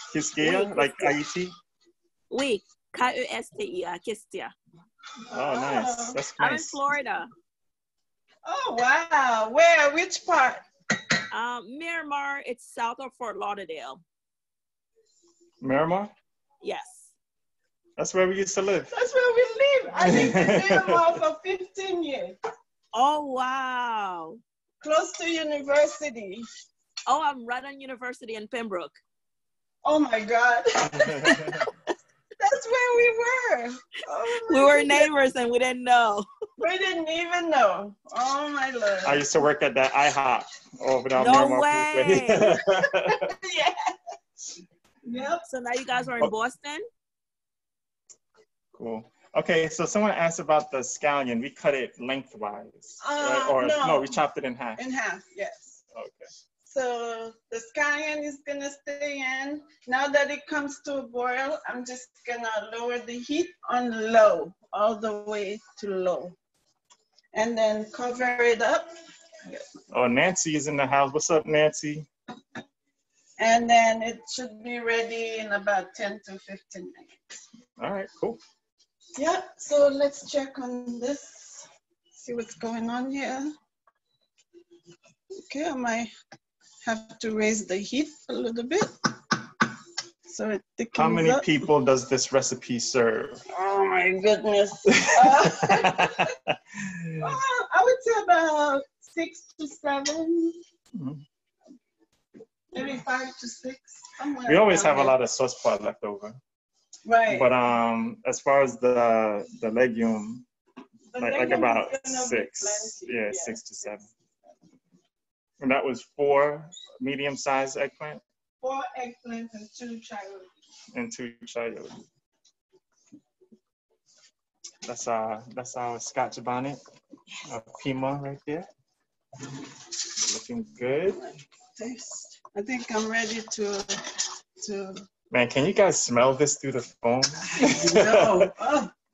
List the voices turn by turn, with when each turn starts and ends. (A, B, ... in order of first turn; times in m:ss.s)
0:00.1-0:01.5 A
0:00.4-0:01.1 B
0:02.3-0:04.5 C
0:05.3-0:06.2 B
0:05.3-0:06.8 A
0:06.4-0:07.3 C
0:08.4-0:10.6 B
0:11.3-0:14.0 C
0:15.6-0:16.1 A
0:16.6-0:17.1 C
0:18.0-0:18.9 A
0:18.9-0:22.4 B
0:20.0-0:21.0 A
0:22.9-0:24.4 C
0:24.8-0:26.4 B
0:27.1-0:29.0 C
0:29.8-0:31.3 B
0:30.9-0:31.7 A
0:32.4-0:35.1 B
0:34.5-0:36.3 C
0:36.6-0:39.3 B
0:39.0-0:43.3 A
0:41.2-0:42.6 C
0:43.0-0:43.9 B
0:45.0-0:45.4 B
0:45.5-0:46.8 C
0:48.7-0:54.8 A
0:53.0-0:54.1 B
0:54.8-0:55.8 B
0:55.9-0:56.3 A
0:56.7-1:06.4 B
1:07.3-1:08.9 B
1:09.9-1:12.1 A
1:13.4-1:17.2 B
1:17.8-1:18.4 A
1:19.2-1:23.5 B
1:25.5-1:26.1 B
1:26.8-1:28.9 B
1:30.3-1:31.5 B
1:31.0-1:33.4 A
1:33.5-1:36.3 B
1:34.9-1:37.3 A
1:37.2-1:40.6 B
1:41.0-1:41.2 A
1:42.7-1:45.1 B
1:44.4-1:46.4 A
1:47.1-1:47.5 B
1:47.3-1:50.4 A
1:51.1-1:54.0 B
1:51.2-1:54.1 A
1:55.6-1:58.2 A
1:58.6-2:00.5 B
2:00.9-2:02.0 A
2:04.8-2:06.8 A
2:07.4-2:08.7 A
2:10.2-2:11.2 A
2:11.1-2:14.0 B
2:14.6-2:15.0 B
2:15.3-2:18.5 A
2:17.5-2:18.9 B